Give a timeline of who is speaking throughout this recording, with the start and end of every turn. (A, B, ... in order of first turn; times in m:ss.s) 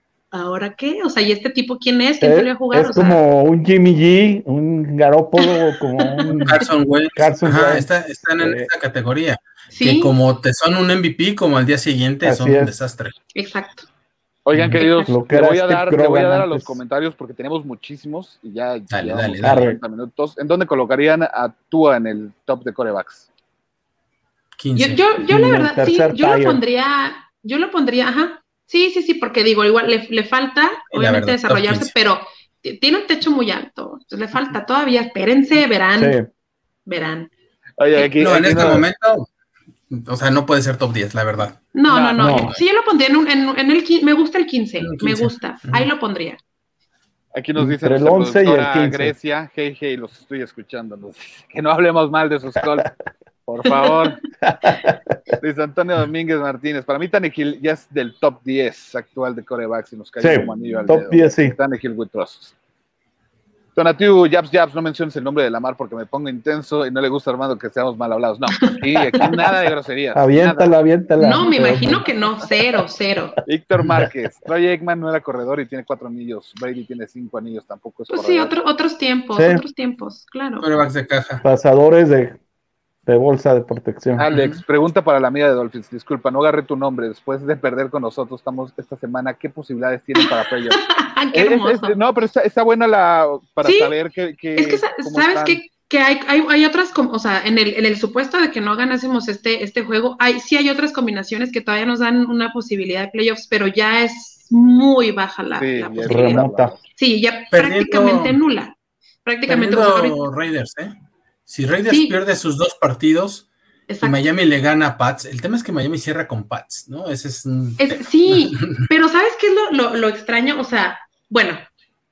0:00.3-0:03.2 A
0:02.2-0:06.6 B
0:05.4-0:06.3 A
0:06.4-0:13.2 C
0:07.2-0:08.7 B
0:09.7-0:10.2 A
0:12.2-0:12.7 B
0:13.4-0:13.9 A
0:14.4-0:23.3 D
0:14.5-0:14.8 C
0:14.8-0:15.1 A
0:15.1-0:16.8 B
0:18.9-0:19.8 C
0:19.4-0:19.8 B
0:24.6-0:25.2 C
0:24.8-0:36.2 A
0:25.3-0:26.6 B
0:30.9-0:31.9 C
0:36.0-0:36.3 B
0:36.9-0:37.3 A
0:37.8-0:38.8 D
0:38.2-0:39.3 C
0:39.9-0:41.6 C
0:41.7-0:46.4 A
0:41.9-0:42.4 D
0:42.2-0:42.5 B
0:44.8-0:45.9 C
0:47.3-0:52.9 D
0:47.6-0:49.1 B
0:53.5-0:54.2 D
0:53.7-0:54.1 A
0:54.4-0:55.0 B
0:55.4-1:02.6 D
1:00.2-1:01.6 B
1:03.8-1:10.7 D
1:10.2-1:12.1 B
1:11.2-1:13.4 A
1:13.4-1:18.6 D
1:18.1-1:20.7 A
1:19.4-1:19.6 B
1:20.6-1:21.4 C
1:21.4-1:22.4 B
1:23.1-1:24.2 B
1:24.2-1:35.6 D
1:24.3-1:24.6 C
1:30.2-1:32.0 A
1:33.6-1:33.9 A
1:34.6-1:50.2 A
1:45.6-1:46.8 D
1:46.0-1:46.8 B
1:47.5-1:48.4 C
1:49.5-1:51.0 C
1:51.5-1:53.5 C
1:51.9-1:52.2 A
1:53.9-1:54.2 A
1:54.0-1:58.9 C
1:57.8-2:01.6 A